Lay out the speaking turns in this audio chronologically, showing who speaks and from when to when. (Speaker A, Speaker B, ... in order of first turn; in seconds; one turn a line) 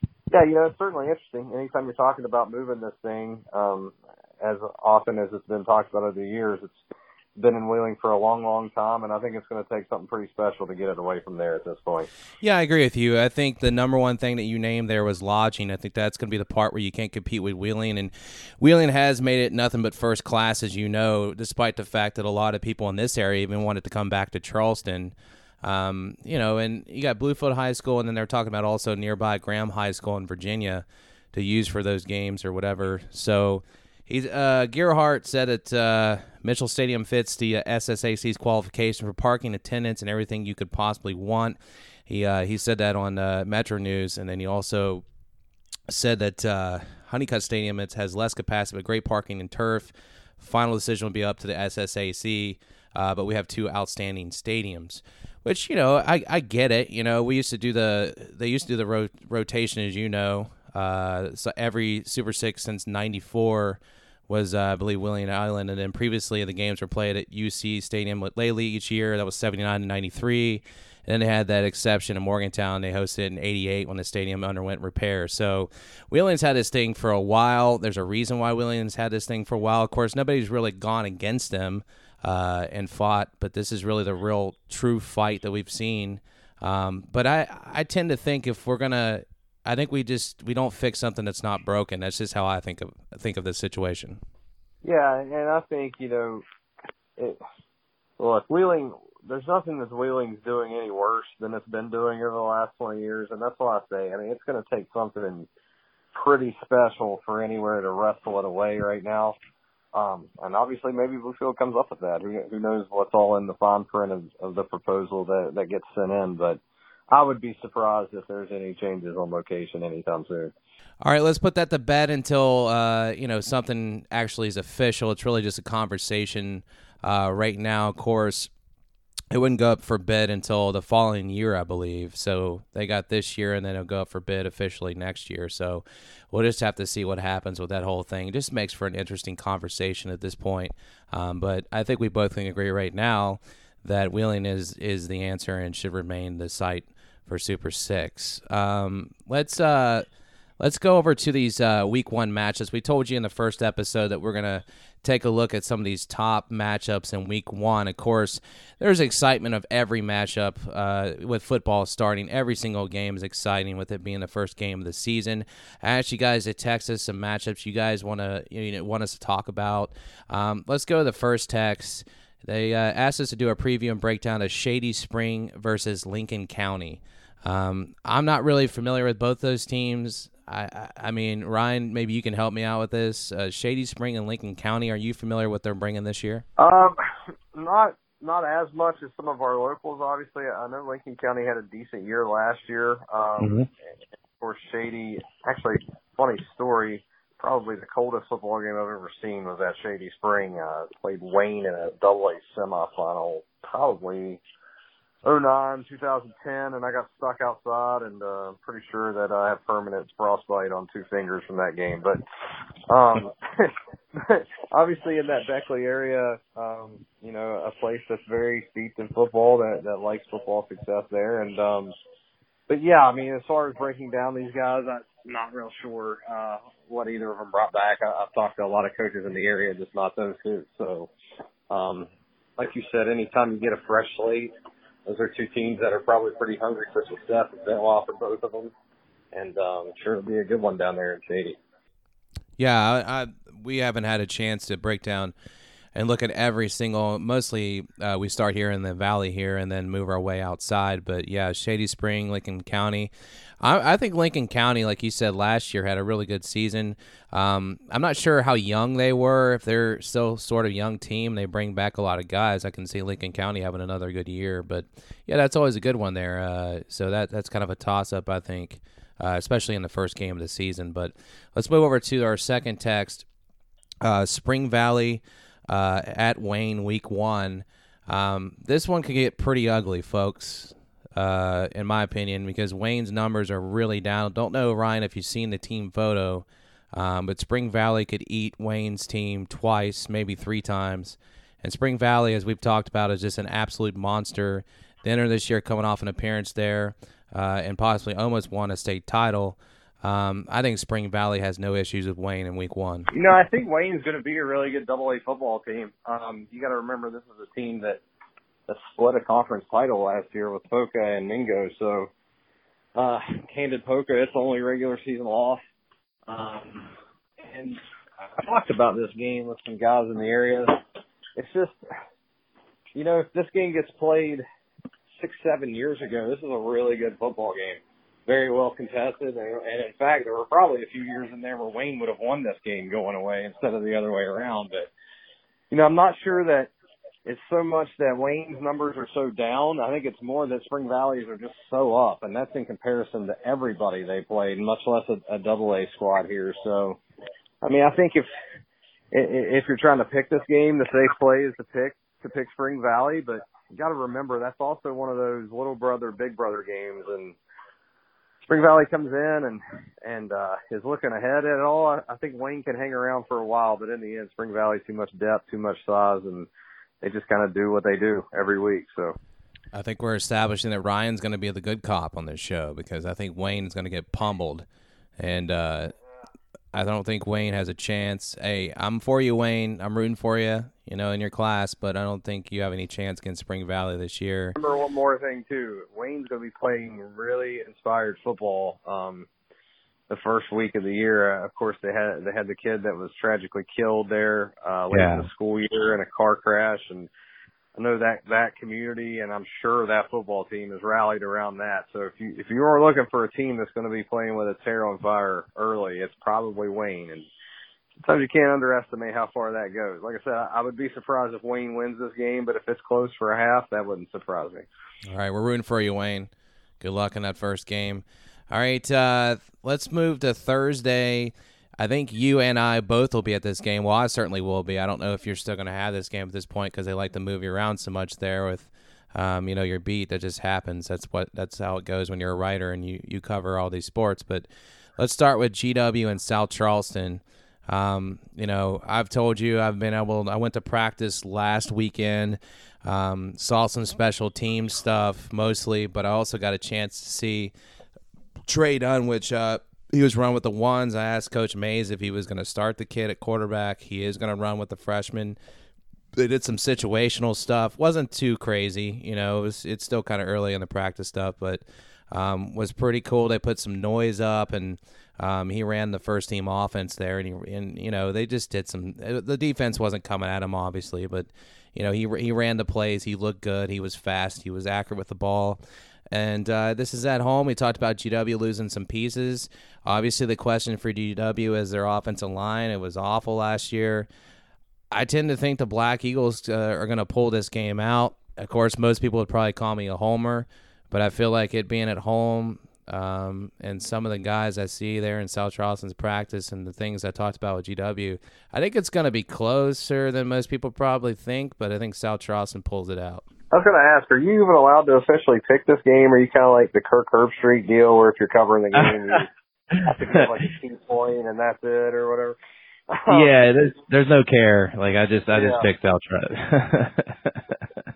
Speaker A: 0.3-6.8
Speaker A: 7.4-12.1
Speaker B: 12.4-41.6
Speaker B: 42.1-45.0
Speaker B: 45.9-94.2
Speaker A: 94.8-96.4
Speaker A: 98.2-105.5
Speaker A: 106.1-109.3
Speaker A: 109.9-116.6
Speaker A: 117.1-120.5
Speaker B: 121.0-128.5
Speaker B: 129.3-150.1
Speaker B: 150.6-186.4
Speaker A: 186.6-187.0
Speaker A: 187.5-193.6
Speaker C: 193.4-193.7
Speaker A: 194.4-204.4
Speaker A: 205.2-212.2
Speaker A: 212.9-221.9
Speaker A: 222.7-231.1
Speaker A: 231.7-234.5
Speaker A: 235.1-238.7
Speaker A: 239.3-241.6
Speaker B: 242.6-245.3
Speaker B: 245.9-273.2
Speaker B: 274.0-303.1
Speaker A: 303.1-308.0
Speaker A: 308.7-312.1
Speaker A: 312.9-315.6
Speaker A: 316.3-316.9
Speaker A: 317.5-317.8
Speaker A: 318.4-320.8
Speaker A: 321.4-321.7
Speaker A: 322.9-324.4
Speaker A: 325.2-334.9
Speaker A: 335.7-336.7
Speaker A: 337.2-347.0
Speaker A: 347.6-348.3
Speaker A: 349.1-357.4
Speaker A: 358.4-366.5
Speaker A: 367.0-369.1
Speaker B: 369.7-374.6
Speaker B: 375.2-375.9
Speaker B: 376.7-384.6
Speaker A: 384.6-389.3
Speaker A: 390.1-397.1
Speaker C: 394.9-395.3
Speaker A: 397.8-407.2
Speaker A: 408.0-414.7
Speaker B: 415.1-416.3
Speaker B: 416.8-434.5
Speaker B: 435.0-447.5
Speaker B: 448.5-455.4
Speaker B: 456.2-475.6
Speaker B: 476.1-484.1
Speaker B: 484.9-503.2
Speaker A: 503.5-509.3
Speaker C: 508.8-509.2
Speaker A: 509.8-512.4
Speaker A: 512.9-513.4
Speaker C: 513.1-517.8
Speaker A: 515.3-515.7